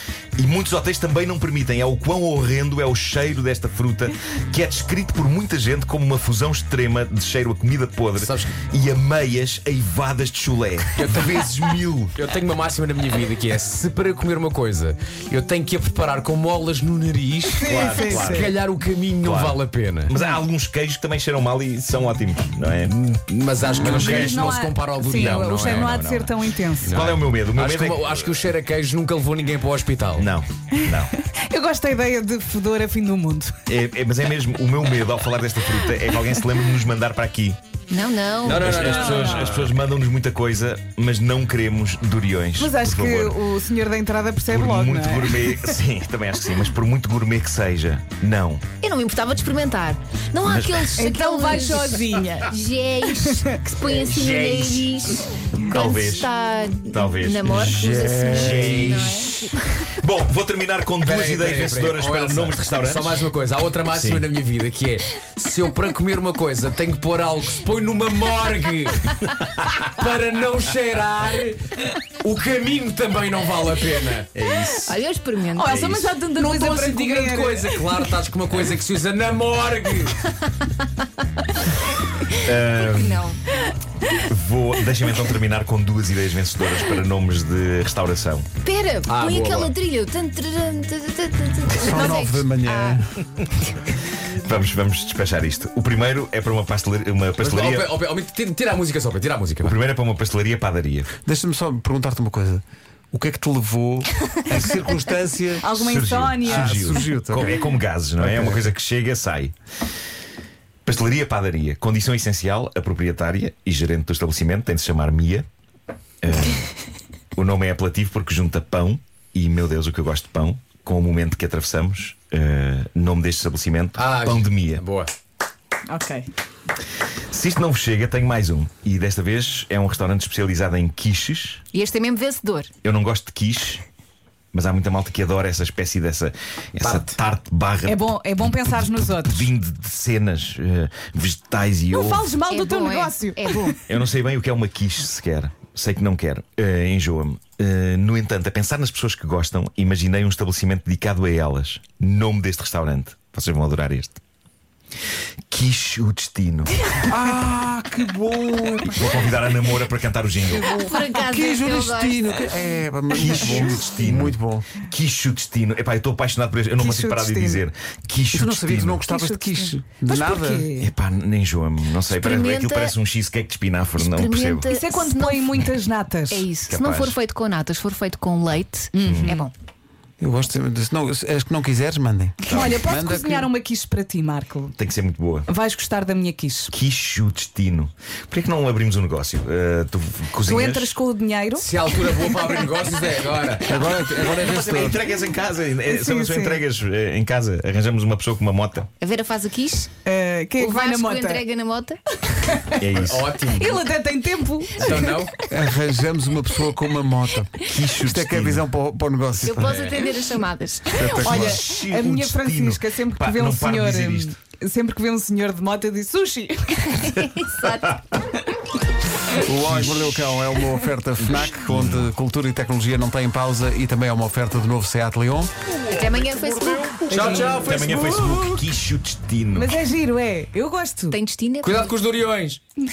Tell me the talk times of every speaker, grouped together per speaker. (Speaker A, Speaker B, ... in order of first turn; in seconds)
Speaker A: 0.4-12.2, 17.6-18.5, 19.2-23.0, 23.8-26.4, 26.9-28.5, 30.1-31.1, 33.7-37.6, 38.5-43.4, 44.5-48.7, 50.4-51.1, 54.5-54.7, 55.6-56.3, 56.9-63.2, 63.9-64.2, 74.3-74.9, 82.4-83.2, 84.2-88.5, 94.4-97.9, 99.6-101.1, 105.7-109.5, 110.8-115.5, 116.2-116.7, 117.3-124.8, 127.3-131.6, 132.8-133.8, 134.5-142.4, 143.9-154.2, 155.5-156.9, 158.9-160.7, 163.1-169.1, 170.8-174.7, 176.7-177.2, 179.0-179.4, 182.4-182.8, 184.8-185.5, 186.7-190.9, 193.9-198.9, 202.8-203.3, 207.6-208.7, 211.1-214.3, 217.1-218.2, 219.6-220.4, 221.2-222.1, 227.1-229.8
Speaker B: 8.2-8.6, 10.9-11.4, 12.1-20.1, 23.1-26.0, 26.8-30.3, 38.4-39.8, 54.0-54.9, 57.4-59.1, 61.0-74.3, 75.7-80.3, 89.1-89.7, 97.4-99.7, 124.0-125.1, 136.8-137.1, 191.6-193.8, 203.0-203.8, 204.8-205.3, 209.5-210.1, 227.1-228.7, 231.6-232.6
Speaker C: 17.6-18.5, 24.1-27.0, 30.8-33.5, 38.7-39.5, 42.6-45.8, 51.0-52.5, 53.0-53.6, 75.5-77.8, 105.6-107.0, 125.9-126.3, 137.8-139.5, 141.9-143.8, 166.8-167.6, 169.0-170.9, 174.7-176.5, 178.9-179.4, 182.4-184.7, 185.5-186.7, 190.4-191.7, 195.9-196.6, 200.0-201.5, 202.3-202.8, 203.5-205.2, 211.1-217.2, 227.1-227.6, 229.5-231.2
Speaker D: 23.8-24.1, 91.7-93.1, 101.2-105.6, 106.4-107.5, 108.2-108.6, 157.0-159.3, 160.5-164.7, 168.3-170.7, 180.2-183.5, 193.7-195.0, 205.0-209.8, 210.9-211.6, 219.4-225.5
Speaker E: 37.9-38.9, 48.8-59.6, 74.8-76.0, 82.9-83.4, 88.6-93.0, 131.7-132.7, 142.4-143.8, 160.8-162.6, 172.1-172.9, 174.0-175.6, 176.3-179.5, 199.0-199.9, 200.6-202.0, 204.9-205.3, 209.4-211.1, 217.1-218.0, 225.8-227.5, 231.1-231.9